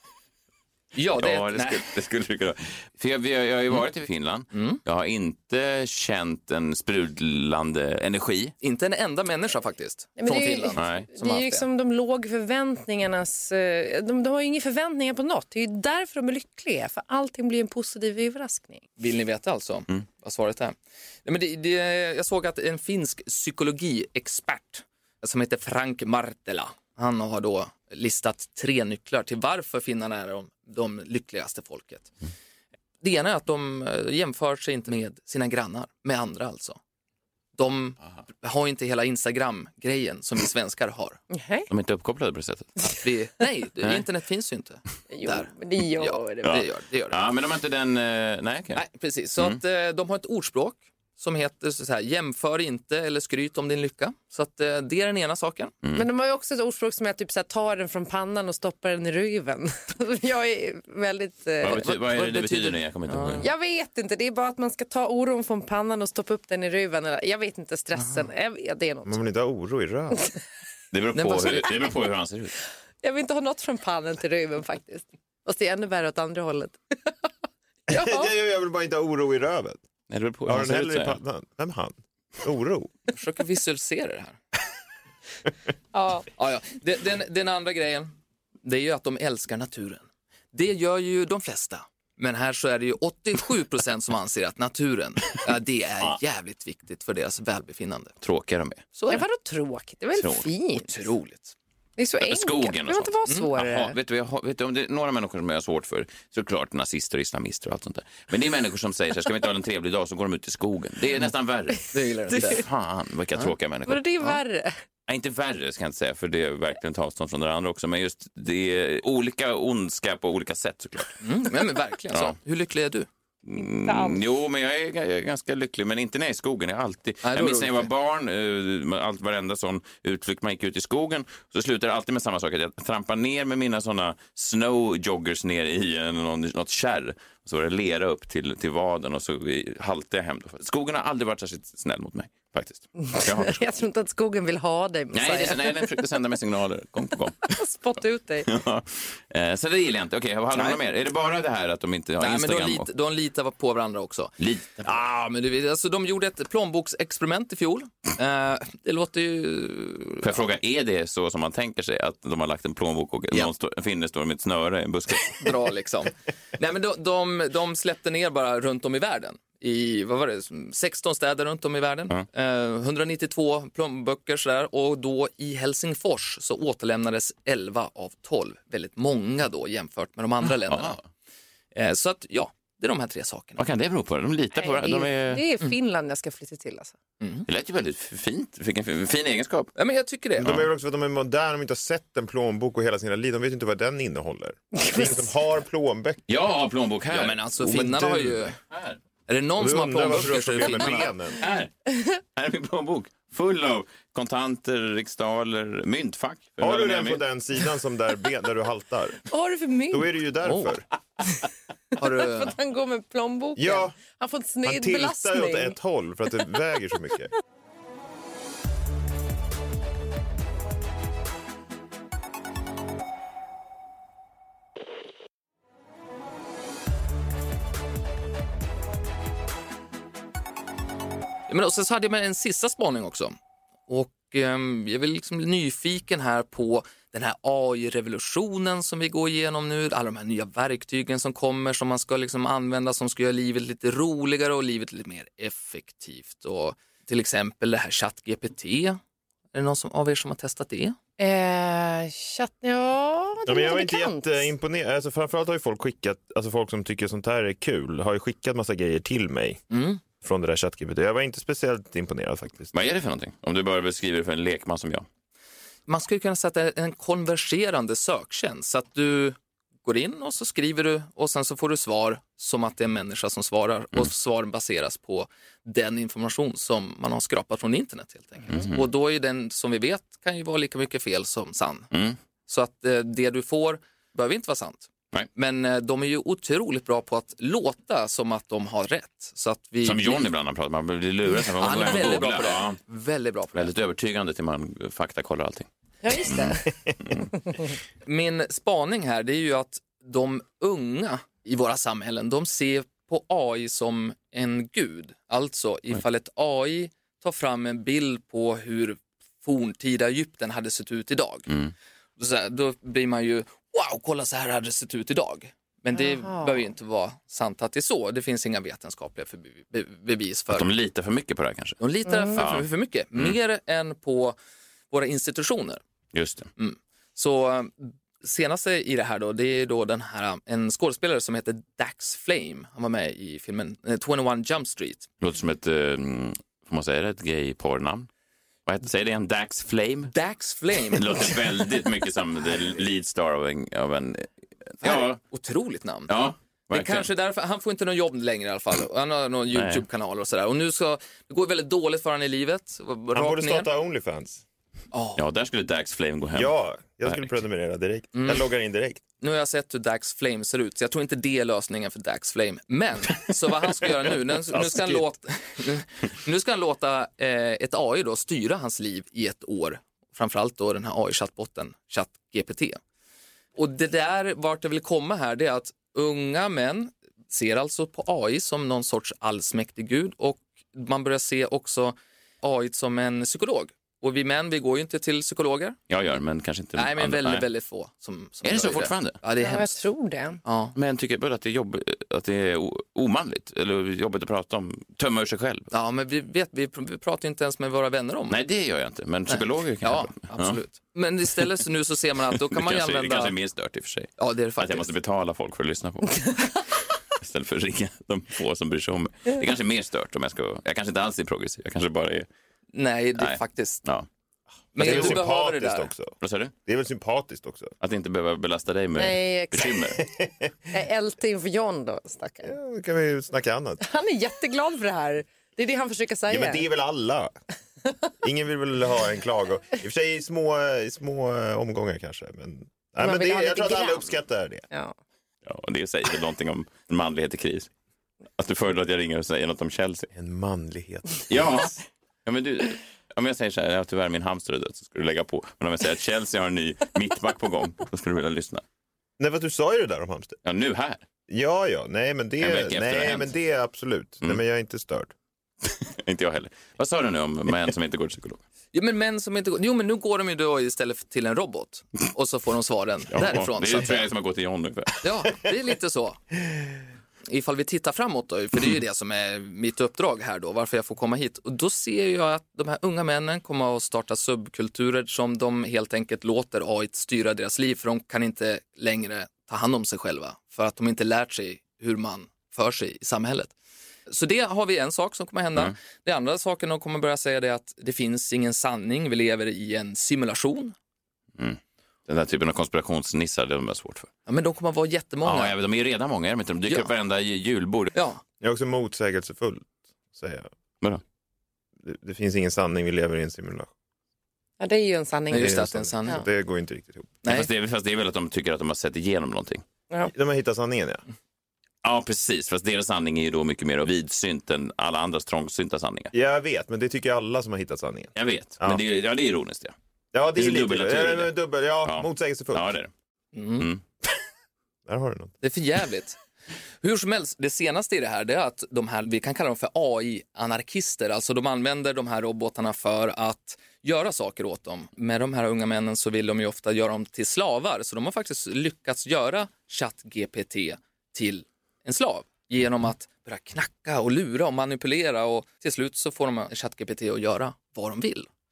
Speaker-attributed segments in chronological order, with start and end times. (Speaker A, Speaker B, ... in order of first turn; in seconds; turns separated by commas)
Speaker A: 0.9-1.9, Speaker B: 1.2-8.5, Speaker A: 4.5-4.8, Speaker A: 8.6-11.7, Speaker C: 10.2-18.8, Speaker B: 10.7-11.1, Speaker A: 19.0-32.1, Speaker A: 33.0-36.8, Speaker A: 37.5-41.2, Speaker C: 41.3-41.7, Speaker B: 41.7-42.8, Speaker A: 42.8-47.2, Speaker C: 45.1-46.6, Speaker B: 46.4-48.8, Speaker A: 48.7-55.7, Speaker B: 55.8-56.1, Speaker C: 55.9-61.9, Speaker B: 61.6-63.5, Speaker A: 61.8-63.4, Speaker C: 63.4-69.1, Speaker D: 69.0-70.2, Speaker B: 70.9-72.5, Speaker A: 71.1-71.7, Speaker C: 73.0-77.3, Speaker C: 77.9-78.3, Speaker D: 77.9-79.8, Speaker B: 80.1-81.2, Speaker D: 80.5-82.9, Speaker A: 83.1-84.4, Speaker C: 85.9-86.3, Speaker A: 86.3-88.1, Speaker A: 88.6-98.1, Speaker B: 98.2-98.8, Speaker A: 98.9-99.2, Speaker C: 99.1-100.9, Speaker B: 100.2-100.5, Speaker A: 100.8-101.5, Speaker C: 102.0-104.0, Speaker B: 102.2-114.4, Speaker A: 111.9-112.6, Speaker C: 113.8-114.7, Speaker B: 115.1-121.2, Speaker A: 121.2-123.1, Speaker B: 122.1-122.3, Speaker B: 123.4-143.6, Speaker C: 123.6-124.2, Speaker A: 127.2-127.9, Speaker C: 143.1-145.9, Speaker B: 145.1-147.6, Speaker C: 147.5-148.5, Speaker B: 148.4-152.9, Speaker A: 150.5-150.8, Speaker A: 152.2-160.4, Speaker B: 154.4-154.9, Speaker B: 160.2-165.5, Speaker A: 165.2-181.0, Speaker B: 180.7-181.0, Speaker A: 181.7-183.6, Speaker B: 183.6-185.4, Speaker C: 184.6-186.9, Speaker A: 187.2-187.4, Speaker B: 187.5-189.7, Speaker A: 189.8-190.5, Speaker D: 190.4-196.2, Speaker B: 190.4-190.7, Speaker C: 194.8-195.2, Speaker B: 196.3-197.8, Speaker A: 197.1-198.6, Speaker D: 197.6-198.4, Speaker B: 198.7-199.0, Speaker A: 199.3-201.1, Speaker D: 199.6-201.4, Speaker B: 200.6-207.2, Speaker D: 206.6-209.2, Speaker C: 209.2-210.1, Speaker D: 209.9-210.8, Speaker A: 210.4-210.7, Speaker A: 212.0-212.5, Speaker C: 212.2-215.7, Speaker D: 213.6-214.0, Speaker D: 214.6-217.3, Speaker A: 231.5-233.3, Speaker A: 233.9-249.0, Speaker A: 249.5-250.9, Speaker C: 251.2-254.5, Speaker D: 253.4-259.6, Speaker A: 259.7-260.0, Speaker D: 260.2-262.7, Speaker B: 262.7-265.1, Speaker A: 265.9-281.9, Speaker B: 278.5-278.8, Speaker B: 281.9-282.2, Speaker A: 282.5-290.2, Speaker B: 289.8-292.8, Speaker A: 291.6-293.7, Speaker B: 293.5-295.7, Speaker C: 296.0-297.2, Speaker B: 296.2-297.2, Speaker A: 298.0-311.5, Speaker A: 312.2-320.7, Speaker C: 315.9-316.5, Speaker B: 320.5-321.8, Speaker A: 321.8-324.4, Speaker C: 322.1-322.4, Speaker B: 322.3-323.3, Speaker A: 324.9-325.8, Speaker B: 326.1-326.5, Speaker A: 326.6-335.1, Speaker B: 335.2-338.1, Speaker B: 338.6-340.1, Speaker A: 340.1-341.5, Speaker B: 340.9-345.2, Speaker A: 344.8-346.1, Speaker B: 346.1-347.1, Speaker A: 346.7-353.7, Speaker B: 349.5-349.8, Speaker D: 353.1-354.4, Speaker A: 354.9-355.2, Speaker B: 355.1-357.3, Speaker D: 356.3-359.0, Speaker A: 358.1-358.4, Speaker A: 359.2-372.8, Speaker A: 373.6-385.8, Speaker B: 385.9-387.4, Speaker A: 386.7-389.8, Speaker B: 388.4-389.2, Speaker C: 389.4-390.4, Speaker A: 390.4-390.7, Speaker B: 390.7-395.7, Speaker A: 395.7-398.4, Speaker B: 398.3-400.6, Speaker A: 399.3-403.3, Speaker B: 402.5-406.6, Speaker A: 404.2-404.9, Speaker B: 407.1-412.3, Speaker A: 412.7-413.8, Speaker B: 413.2-414.1, Speaker A: 414.7-415.9, Speaker D: 414.7-416.1, Speaker B: 414.8-415.2, Speaker B: 416.2-416.5, Speaker D: 416.6-417.7, Speaker B: 417.8-420.0, Speaker C: 419.0-420.0, Speaker D: 420.0-420.5, Speaker C: 420.7-422.5, Speaker D: 422.4-423.8, Speaker C: 423.8-426.6, Speaker D: 426.3-427.3, Speaker D: 428.2-434.6, Speaker C: 433.0-434.1, Speaker B: 435.4-437.7, Speaker B: 438.4-440.1, Speaker D: 440.1-441.5, Speaker B: 441.3-448.6, Speaker D: 449.2-450.4, Speaker B: 450.4-451.0, Speaker D: 451.3-455.1, Speaker B: 452.4-453.3, Speaker B: 455.6-458.4, Speaker A: 458.7-464.1, Speaker B: 463.1-465.0, Speaker A: 465.0-466.2, Speaker A: 467.3-483.5, Speaker A: 484.1-490.7, Speaker B: 491.4-494.1, Speaker A: 494.3-495.6, Speaker B: 495.2-497.9, Speaker A: 497.9-498.2, Speaker D: 498.4-500.5, Speaker D: 501.8-503.7, Speaker C: 504.6-506.1, Speaker A: 505.3-506.2, Speaker D: 505.3-507.2, Speaker A: 507.2-507.5, Speaker B: 507.2-509.6, Speaker D: 510.1-511.0, Speaker B: 511.8-516.1, Speaker D: 516.1-518.8, Speaker B: 518.1-519.7, Speaker D: 520.1-522.7, Speaker B: 520.4-521.3, Speaker B: 521.8-522.9, Speaker A: 523.3-523.7, Speaker D: 524.9-525.3, Speaker A: 525.4-526.2, Speaker A: 526.8-548.3